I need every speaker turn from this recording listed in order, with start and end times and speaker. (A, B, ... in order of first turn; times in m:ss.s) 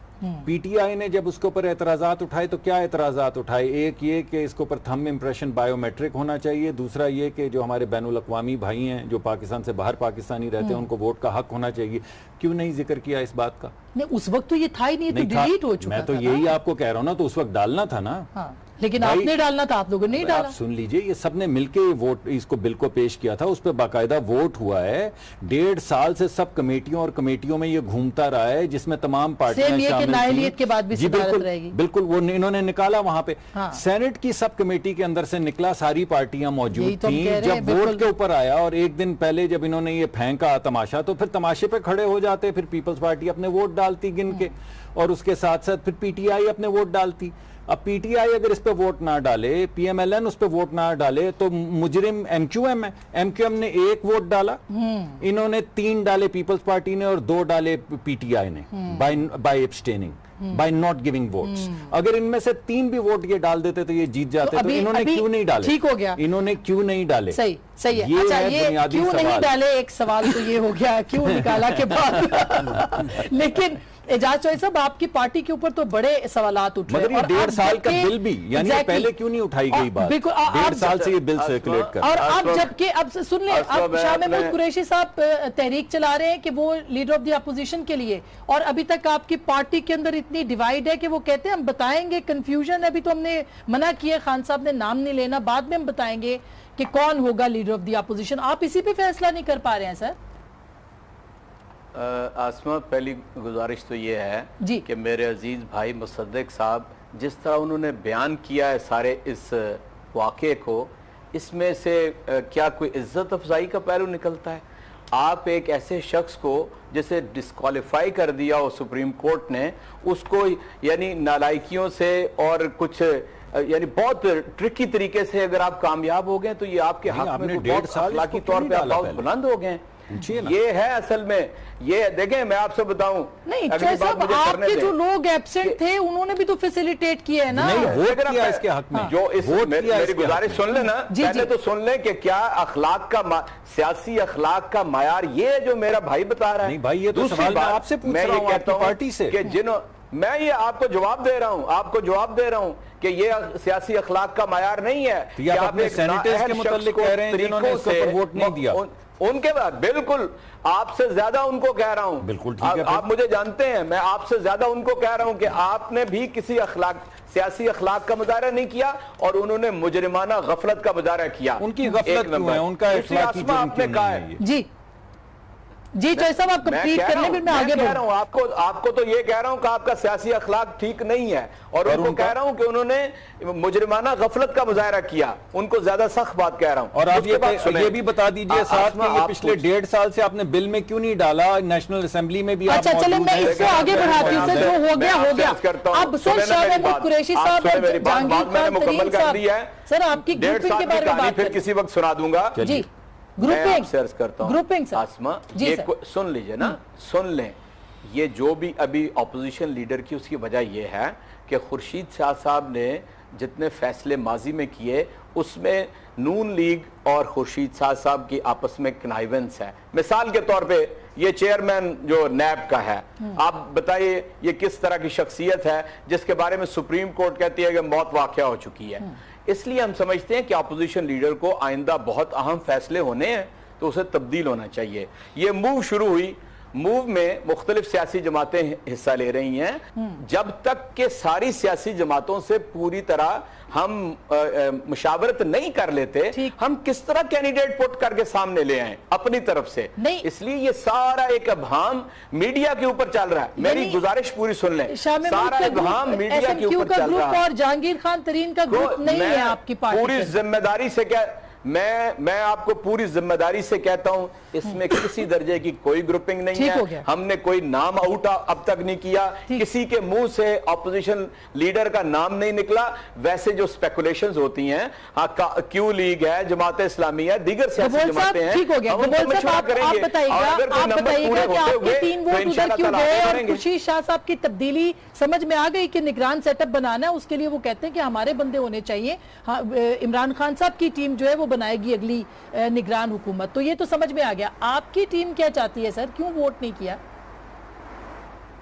0:00.2-0:00.5 A
0:00.4-0:13.7 B
0:13.9-0:16.5 A
0:15.1-0:18.3 B
0:18.3-0:20.5 A
0:19.0-0:19.4 B
0:20.1-0:54.6 B
0:29.5-0:31.7 A
0:33.5-0:33.8 A
0:36.7-0:38.0 A
0:54.7-0:55.2 A
0:55.2-1:07.4 B
0:58.7-0:59.0 A
1:01.4-1:01.9 A
1:04.4-1:06.2 A
1:07.3-1:19.1 A
1:07.9-1:09.5 B
1:16.9-1:22.1 B
1:19.7-1:21.1 A
1:20.8-1:22.7 C
1:22.0-1:40.2 A
1:23.5-1:24.6 C
1:41.9-2:14.9 C
2:07.1-2:09.2 B
2:10.1-2:10.5 B
2:13.4-2:18.0 A
2:17.5-2:20.6 B
2:17.6-2:54.3 C
2:20.8-2:21.5 A
2:26.6-2:29.4 B
2:35.4-2:38.8 B
2:42.2-2:43.0 B
2:51.6-2:54.4 B
2:54.4-2:54.7 A
2:55.9-2:58.0 A
2:56.1-3:09.6 C
3:01.8-3:02.3 B
3:06.9-3:14.8 B
3:12.7-3:21.6 A
3:13.4-3:22.6 C
3:22.6-3:22.8 B
3:22.6-3:22.9 A
3:23.4-3:23.9 A
3:23.4-4:17.4 C
3:24.4-3:25.0 A
3:25.5-3:25.9 A
4:10.0-4:10.2 A
4:13.6-4:14.0 A
4:14.9-4:20.4 A
4:18.7-4:43.6 C
4:26.5-4:27.0 A
4:37.8-4:57.0 A